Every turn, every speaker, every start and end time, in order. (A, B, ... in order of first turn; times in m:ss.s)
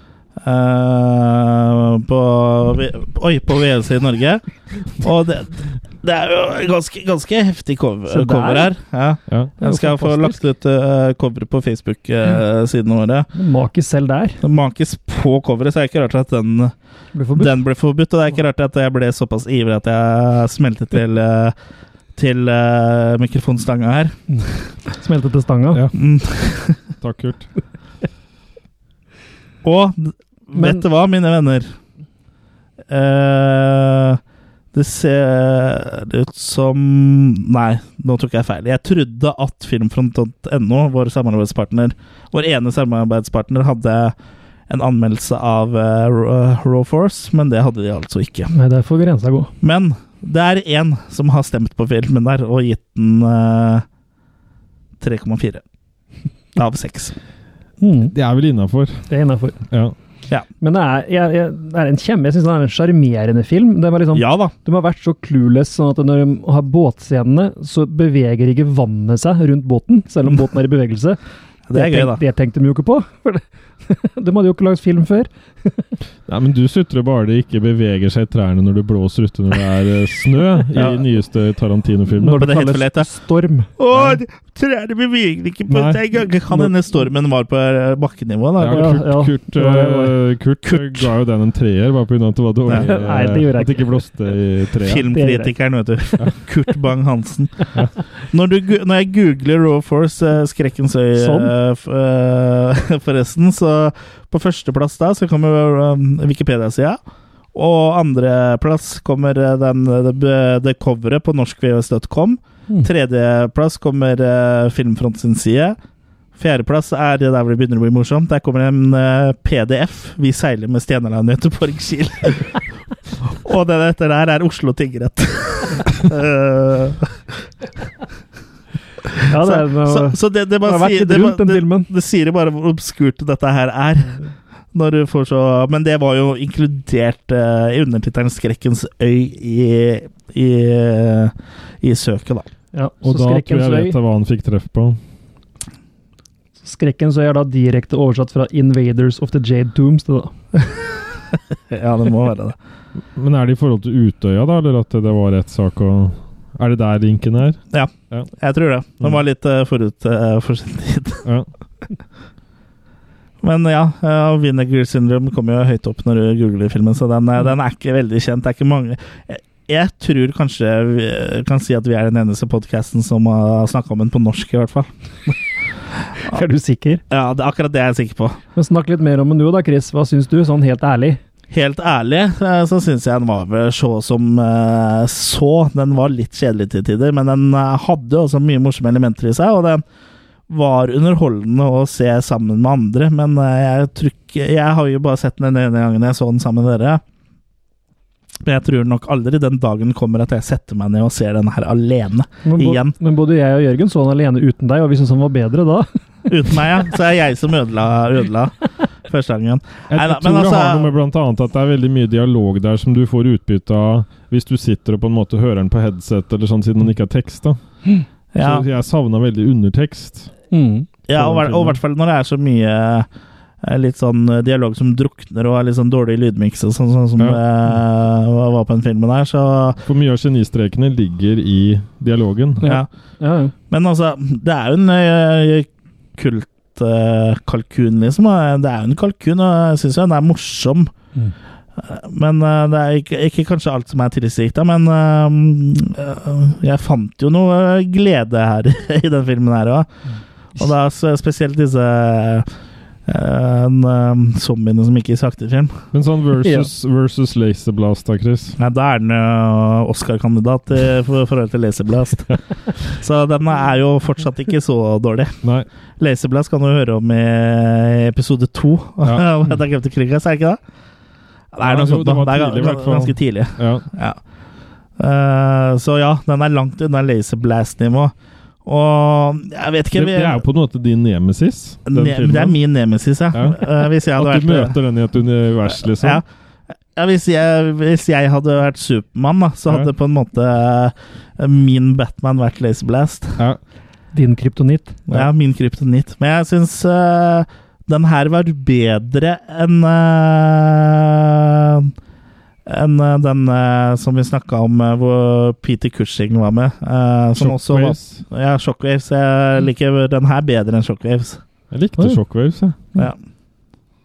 0:00.4-0:13.3 A
0:08.1-0:08.7 B
0:09.6-0:10.4 B
0:13.3-0:14.4 B
0:14.4-0:16.7 A
0:17.1-0:17.5 B
0:17.3-0:21.5 A
0:22.2-0:24.2 A
0:24.3-0:25.8 B
0:25.7-0:26.0 C
0:25.9-0:26.8 A
0:27.0-0:27.5 C
0:29.6-0:31.7 A
0:30.6-0:30.8 B
0:32.9-0:34.2 A
0:34.7-0:44.1 A
0:44.7-0:48.5 A
0:48.5-0:49.5 B
0:49.6-0:53.8 A
0:55.0-0:55.6 A
0:56.5-0:57.1 A
0:57.8-0:58.1 B
0:58.1-0:59.1 C
0:59.1-0:59.6 B
0:59.7-0:59.9 C
1:00.6-1:11.2 B
1:04.1-1:04.5 A
1:11.7-1:12.2 A
1:11.7-1:15.8 B
1:16.3-1:22.4 C
1:20.7-1:21.0 A
1:22.2-1:23.7 B
1:22.4-1:23.1 A
1:23.8-1:29.0 A
1:23.9-1:24.2 C
1:25.7-1:26.0 C
1:28.6-1:35.1 C
1:28.7-1:30.2 B
1:30.7-1:31.0 A
1:32.7-1:34.1 B
1:34.8-1:37.7 A
1:35.1-1:35.5 B
1:38.3-1:47.0 A
1:41.2-1:41.5 B
1:47.5-1:55.8 A
1:56.4-2:02.6 A
2:03.3-2:07.2 A
2:09.3-2:11.9 B
2:09.4-2:14.2 A
2:14.7-2:22.5 A
2:22.7-2:24.0 B
2:23.0-2:25.0 C
2:26.6-2:30.3 B
2:31.7-2:32.6 A
2:33.1-2:38.3 C
2:37.7-2:41.2 A
2:43.4-2:55.3 A
2:56.2-2:57.0 B
2:57.1-2:58.4 A
2:58.5-3:01.2 B
3:01.5-3:09.8 A
3:10.5-3:17.0 A
3:18.4-3:22.9 A
3:22.4-3:25.9 B
3:26.3-3:30.8 A
3:29.9-3:37.6 C
3:38.3-3:38.6 A
3:38.4-3:40.3 C
3:40.5-3:40.9 B
3:41.1-3:43.1 A
3:41.2-3:41.8 C
3:43.6-3:49.8 A
3:49.8-3:52.7 C
3:52.6-3:53.5 B
3:53.7-4:00.9 A
4:01.8-4:09.9 A
4:10.6-4:12.5 A
4:13.1-4:15.8 A
4:15.9-4:18.6 C
4:16.4-4:16.7 B
4:18.6-4:25.3 A
4:25.4-4:25.7 C
4:26.0-4:30.6 A
4:29.0-4:29.3 C
4:31.5-4:34.2 A
4:31.6-4:33.8 C
4:35.0-4:38.1 A
4:38.6-4:40.4 A
4:39.9-4:42.6 C
4:41.9-4:44.7 A
4:43.3-4:46.2 C
4:46.0-4:46.2 A
4:47.0-4:53.4 A
4:54.1-4:55.0 B
4:55.1-5:01.9 A
5:02.7-5:11.4 A
5:07.3-5:08.2 C
5:11.7-5:12.8 C
5:12.0-5:12.2 B